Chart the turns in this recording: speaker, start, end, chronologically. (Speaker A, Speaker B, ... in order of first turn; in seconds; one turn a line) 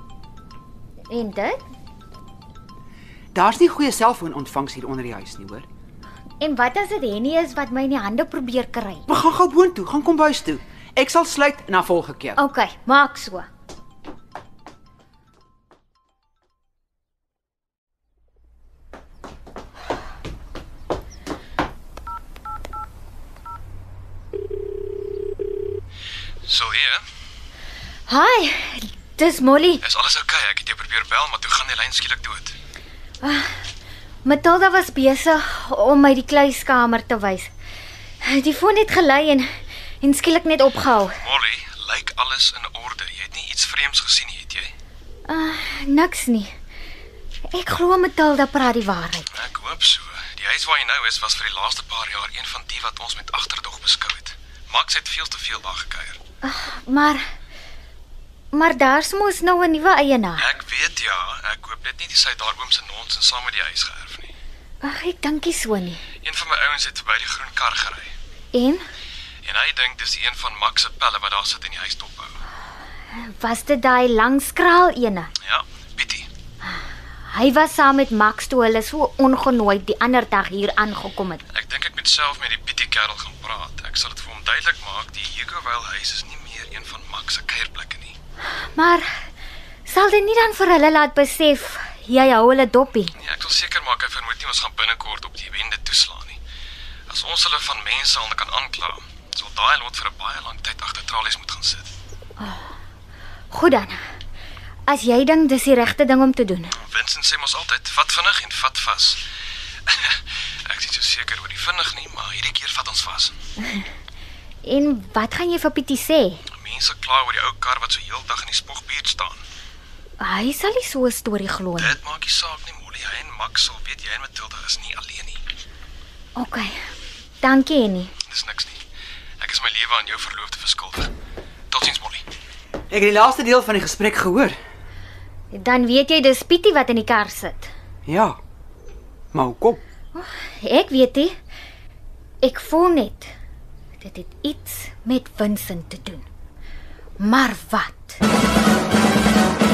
Speaker A: 1.1-1.6
Speaker B: 3.3-5.7
Speaker A: 6.4-9.0
Speaker B: 9.1-12.4
Speaker A: 12.4-13.5
Speaker C: 26.4-27.1
Speaker A: 28.1-29.8
Speaker C: 29.8-32.5
Speaker A: 33.2-33.6
Speaker A: 34.2-37.5
Speaker A: 38.2-39.5
Speaker A: 40.0-41.2
Speaker C: 41.2-44.7
Speaker A: 45.2-46.5
Speaker A: 47.5-49.3
Speaker C: 49.3-56.2
Speaker A: 56.4-57.2
Speaker A: 58.5-60.5
Speaker C: 60.4-64.3
Speaker A: 64.8-66.0
Speaker C: 66.2-68.1
Speaker A: 68.5-68.8
Speaker C: 69.4-72.4
Speaker A: 73.1-75.3
Speaker C: 75.4-76.3
Speaker A: 76.6-81.4
Speaker C: 81.5-88.2
Speaker A: 88.4-89.2
Speaker A: 89.8-93.1
Speaker C: 93.2-96.4
Speaker C: 97.1-101.9
Speaker A: 102.4-102.7
Speaker A: 103.5-104.0
Speaker A: 104.9-106.8
Speaker C: 106.8-109.2
Speaker C: 109.8-113.3
Speaker A: 114.6-116.4
Speaker C: 116.5-119.4
Speaker A: 120.2-122.0
Speaker C: 121.8-125.4
Speaker A: 126.3-126.8
Speaker A: 127.4-128.1
Speaker C: 128.2-128.8
Speaker C: 129.4-131.1
Speaker C: 131.7-132.2
Speaker B: 132.9-134.6
Speaker A: 135.5-137.7
Speaker B: 138.1-138.4
Speaker B: 139.3-139.8
Speaker A: 140.1-141.3
Speaker A: 142.4-143.3
Speaker A: 144.0-146.3
Speaker A: 147.2-148.2